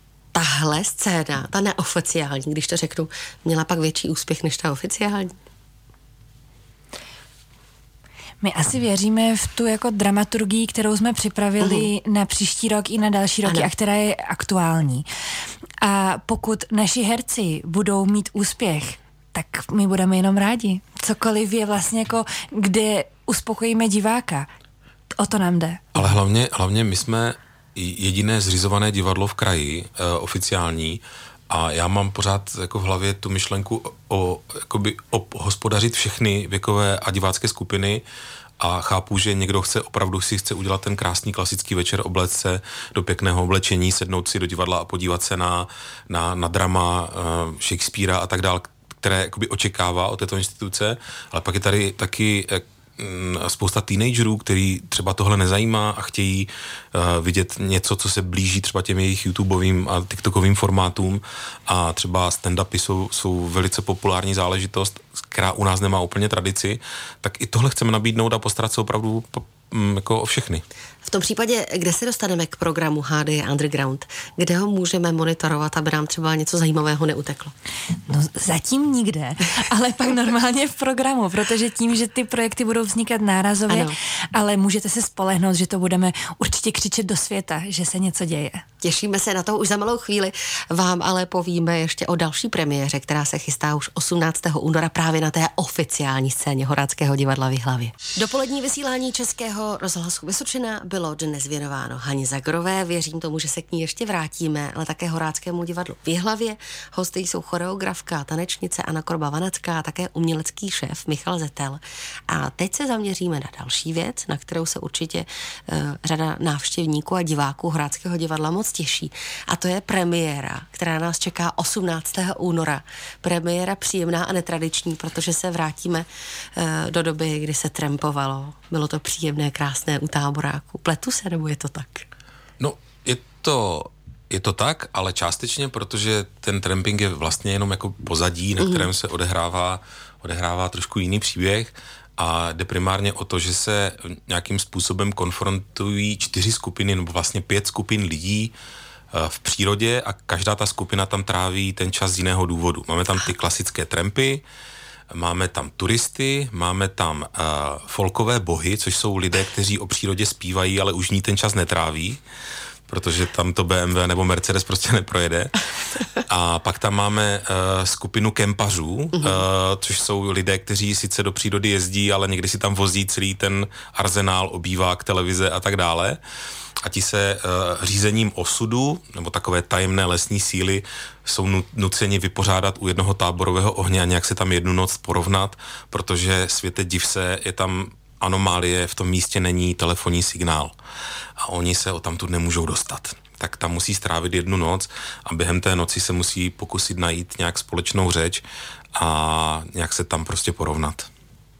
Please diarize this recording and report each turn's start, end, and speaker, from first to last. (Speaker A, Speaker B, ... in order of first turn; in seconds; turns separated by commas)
Speaker A: 0.3-5.3, Speaker B: 8.4-15.1, Speaker A: 11.6-11.9, Speaker B: 15.8-24.5, Speaker B: 25.2-26.1, Speaker C: 25.9-38.0, Speaker C: 38.6-70.6, Speaker A: 71.0-77.5, Speaker B: 78.1-88.6, Speaker A: 83.7-84.0, Speaker A: 88.8-132.1, Speaker C: 132.6-148.5, Speaker A: 138.6-138.9, Speaker C: 149.1-154.4, Speaker C: 155.1-162.2, Speaker C: 162.9-165.6, Speaker C: 166.2-176.2, Speaker A: 169.2-169.4, Speaker C: 176.8-190.7, Speaker C: 191.4-198.4, Speaker C: 198.9-201.1